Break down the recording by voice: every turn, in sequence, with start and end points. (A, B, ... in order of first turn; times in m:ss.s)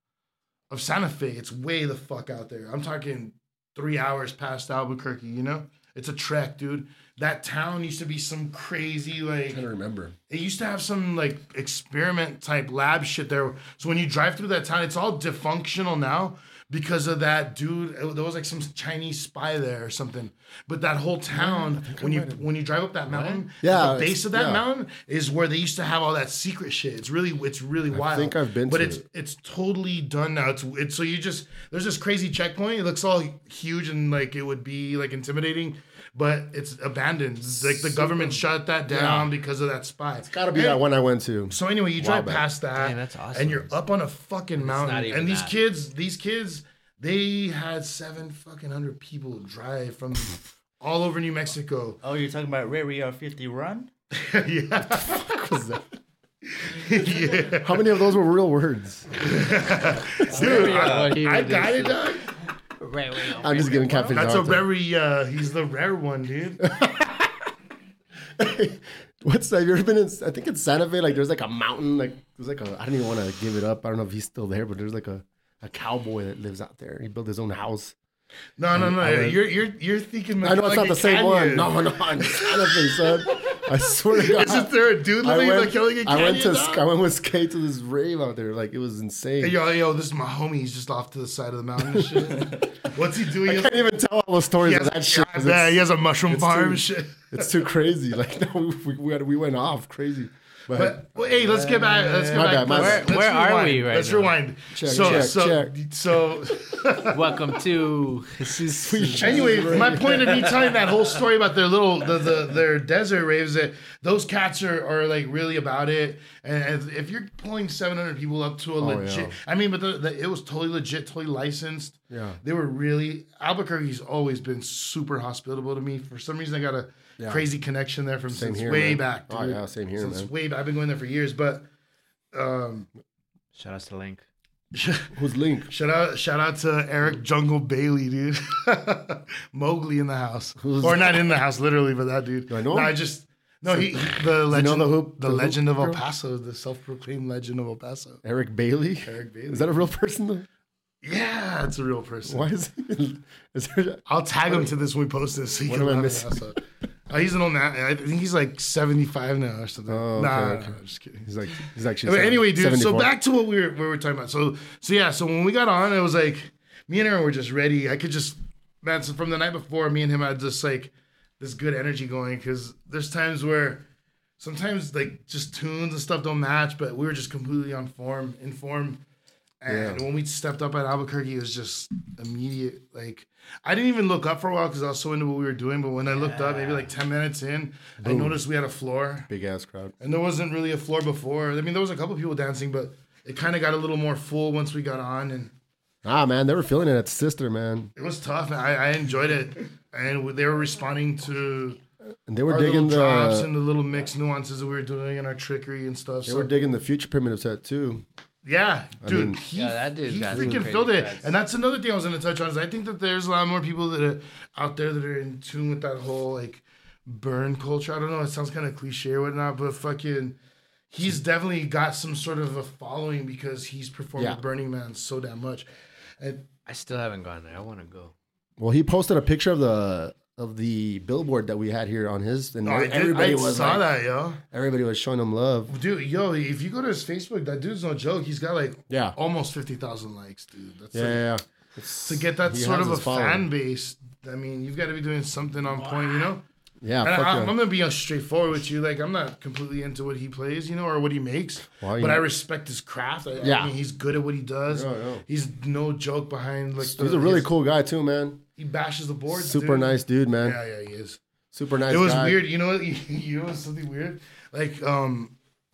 0:00.7-0:09.6 A
0:09.5-0:10.1 B
0:10.3-0:40.8 A
0:21.3-0:22.4 B
0:23.1-0:23.4 C
0:23.6-0:24.6 B
0:27.9-0:29.0 B
0:37.6-0:39.3 B
0:40.2-0:42.4 B
0:41.5-0:52.0 A
0:42.7-0:43.7 C
0:44.6-0:45.6 C
0:52.0-0:53.9 D
0:54.1-0:55.2 A
0:54.9-0:55.8 B
0:56.6-0:57.9 A
0:57.6-0:59.2 B
0:59.2-1:02.3 A
1:00.3-1:00.7 B
1:00.3-1:02.0 C
1:00.4-1:01.2 D
1:02.8-1:04.3 C
1:03.4-1:04.6 B
1:04.1-1:06.6 A
1:06.6-1:07.3 B
1:08.4-1:17.9 B
1:18.6-1:26.8 A
1:18.7-1:19.4 B
1:20.4-1:29.5 B
1:29.4-1:33.8 A
1:31.9-1:32.4 B
1:33.4-1:43.1 B
1:34.6-1:37.5 A
1:40.7-1:47.4 A
1:41.8-1:45.3 C
1:44.7-1:45.7 B
1:47.1-1:50.0 C
1:48.8-1:50.5 B
1:49.1-2:11.6 A
1:58.8-1:59.4 B
2:02.1-2:02.4 B
2:07.2-2:07.4 B
2:08.3-2:10.3 B
2:12.3-2:12.9 A
2:13.5-2:14.2 C
2:14.7-2:15.1 A
2:15.1-2:15.7 B
2:15.7-2:28.2 A
2:20.6-2:21.2 B
2:22.5-2:22.9 B
2:23.7-2:26.0 B
2:28.2-2:30.4 B
2:29.0-2:29.8 A
2:31.0-2:32.5 A
2:32.3-2:34.7 B
2:34.1-2:41.3 A
2:35.6-2:36.4 B
2:39.9-2:43.1 B
2:42.0-2:53.8 A
2:54.4-2:59.0 A
2:59.6-3:09.3 A
2:59.7-3:00.0 B
3:06.0-3:06.9 C
3:08.0-3:08.4 B
3:09.3-3:09.9 B
3:10.0-3:15.5 A
3:16.0-3:17.9 B
3:18.0-3:21.8 A
3:22.3-3:23.5 B
3:22.5-3:26.5 A
3:26.2-3:28.0 B
3:28.4-3:40.4 A
3:29.0-3:29.4 B
3:29.5-3:31.3 C
3:30.3-3:30.7 B
3:40.9-3:45.7 A
3:46.2-3:46.5 A
3:46.6-3:48.1 C
3:48.6-3:53.9 B
3:52.6-3:54.4 A
3:54.5-3:55.7 B
3:55.7-4:01.2 A
3:58.9-3:59.1 B
4:00.9-4:03.5 B
4:02.1-4:06.4 A
4:06.8-4:07.5 B
4:07.0-4:17.5 A
4:11.8-4:12.2 B
4:13.4-4:13.7 B
4:14.7-4:15.2 B
4:16.8-4:18.4 B
4:18.6-4:21.2 A
4:19.3-4:20.6 B
4:21.5-4:22.4 B
4:21.9-4:25.3 A